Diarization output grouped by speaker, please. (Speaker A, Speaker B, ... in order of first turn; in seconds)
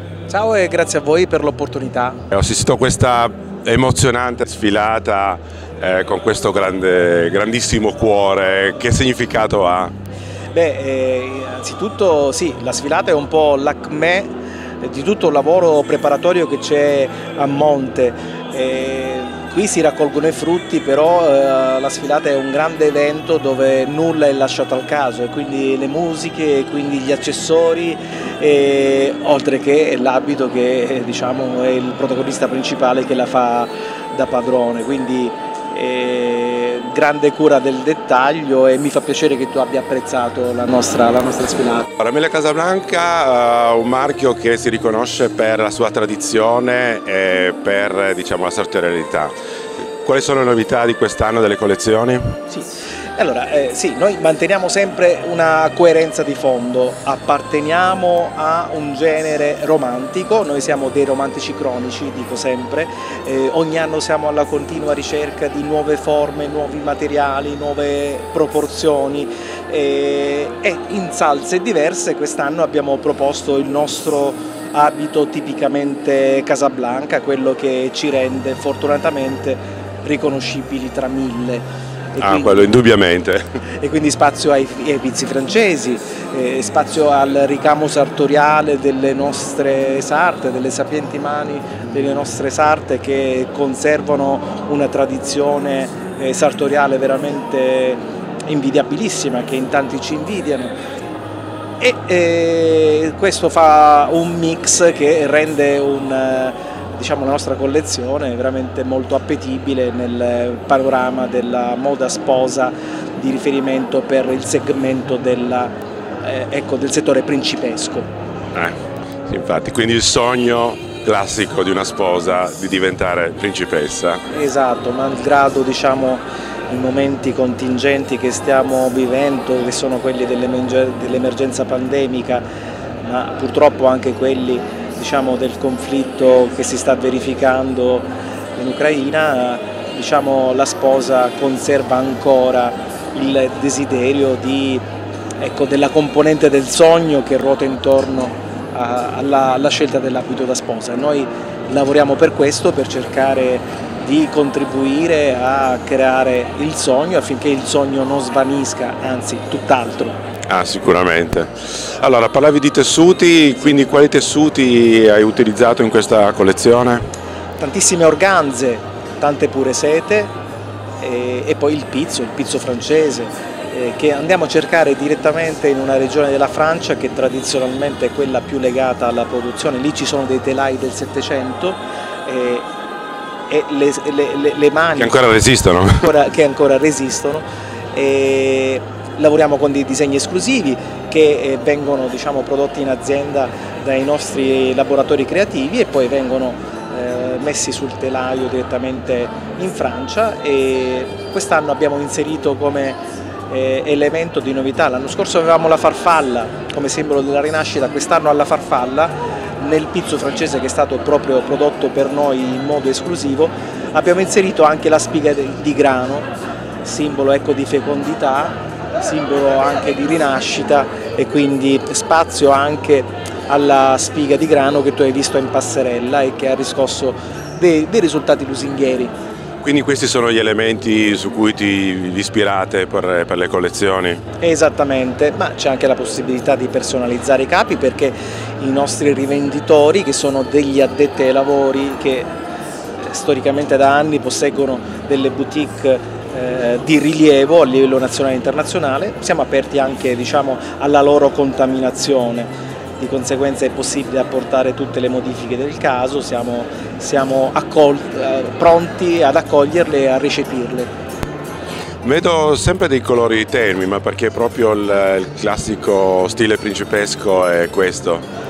Speaker A: 0.3-2.2, 10.5-14.3, 14.8-41.9, 52.5-82.7, 83.8-100.7, 101.8-118.1, 124.3-132.4, 133.0-144.8, 145.4-160.2, 167.6-170.3, 171.0-182.7, 183.5-185.2, 185.9-216.3, 216.8-229.1, 234.4-242.3, 243.0-260.9
Speaker B: 2.3-9.9, 42.0-49.3, 50.0-52.3, 82.2-83.4, 119.3-124.2, 160.5-167.0, 185.0-186.1, 229.6-234.2, 262.0-268.2